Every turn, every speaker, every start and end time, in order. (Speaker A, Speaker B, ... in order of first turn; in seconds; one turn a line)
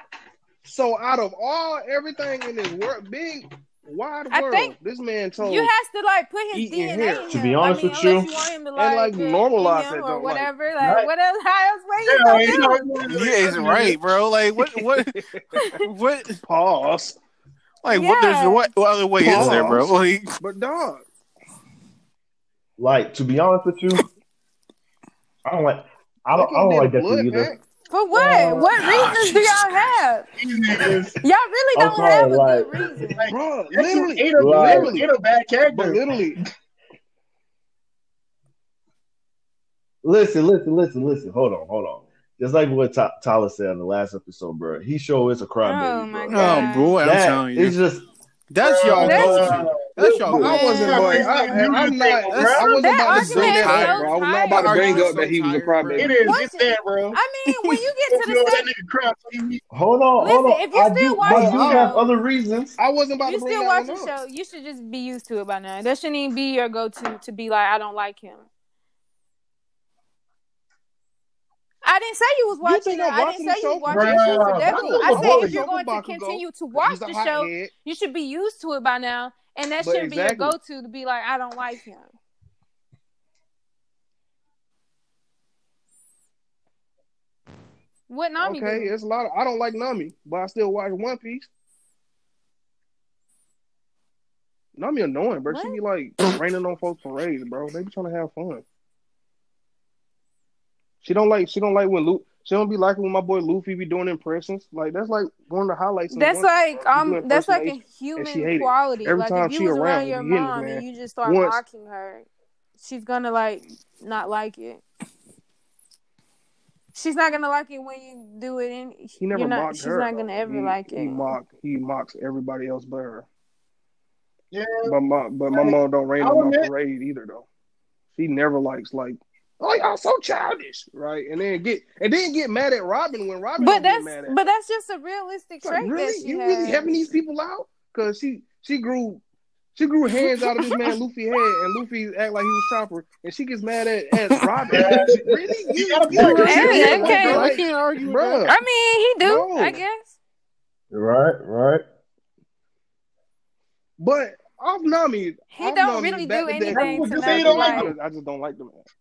Speaker A: 0.6-5.7
Speaker B: 4.3-4.7
Speaker B: 5.4-12.8
Speaker A: 6.5-7.3
Speaker C: 7.3-8.3
Speaker A: 8.8-10.5
Speaker C: 10.8-11.1
Speaker D: 12.0-14.0
Speaker E: 13.0-15.2
Speaker A: 14.6-15.8
Speaker B: 15.6-15.9
Speaker E: 15.7-16.4
Speaker A: 16.4-17.2
Speaker E: 17.8-20.3
Speaker B: 17.9-18.7
Speaker A: 19.2-21.0
Speaker C: 19.3-19.6
Speaker C: 22.8-24.0
Speaker C: 25.4-27.6
Speaker A: 26.3-27.6
Speaker B: 27.9-30.3
Speaker C: 28.1-28.8
Speaker E: 28.5-29.7
Speaker D: 30.4-31.2
Speaker B: 31.2-33.3
Speaker C: 31.7-32.9
Speaker D: 33.1-36.0
Speaker A: 33.2-35.1
Speaker C: 34.3-35.0
Speaker A: 35.7-36.4
Speaker C: 40.0-48.0
Speaker B: 45.6-47.0
Speaker E: 46.3-47.8
Speaker E: 48.5-56.3
Speaker D: 48.6-52.8
Speaker B: 48.9-49.6
Speaker A: 50.3-56.2
Speaker B: 50.5-51.8
Speaker B: 52.7-55.2
Speaker D: 56.0-57.2
Speaker B: 56.2-58.7
Speaker E: 57.5-57.8
Speaker D: 58.1-59.6
Speaker C: 59.7-62.8
Speaker B: 60.2-62.0
Speaker A: 61.2-61.9
Speaker A: 62.8-64.1
Speaker B: 63.2-68.5
Speaker B: 71.8-82.1
Speaker A: 72.6-77.7
Speaker D: 73.9-75.6
Speaker A: 79.8-80.5
Speaker B: 88.1-88.9
Speaker A: 88.4-91.5
Speaker A: 94.8-98.6
Speaker B: 95.5-95.8
Speaker A: 101.0-111.6
Speaker B: 106.1-112.2
Speaker B: 112.8-114.8
Speaker B: 116.9-121.4
Speaker A: 119.2-123.3
Speaker D: 124.5-124.9
Speaker A: 124.8-127.5
Speaker D: 125.5-126.7
Speaker A: 128.1-134.4
Speaker B: 133.6-136.9
Speaker A: 135.6-139.2
Speaker A: 139.7-148.6
Speaker B: 140.1-141.8
Speaker D: 144.7-145.2
Speaker C: 144.7-145.2
Speaker D: 145.7-147.4
Speaker E: 146.1-148.6
Speaker B: 146.2-147.7
Speaker B: 148.4-150.1
Speaker A: 149.2-149.8
Speaker C: 150.9-151.8
Speaker A: 154.0-158.8
Speaker B: 155.5-157.9
Speaker D: 156.7-157.9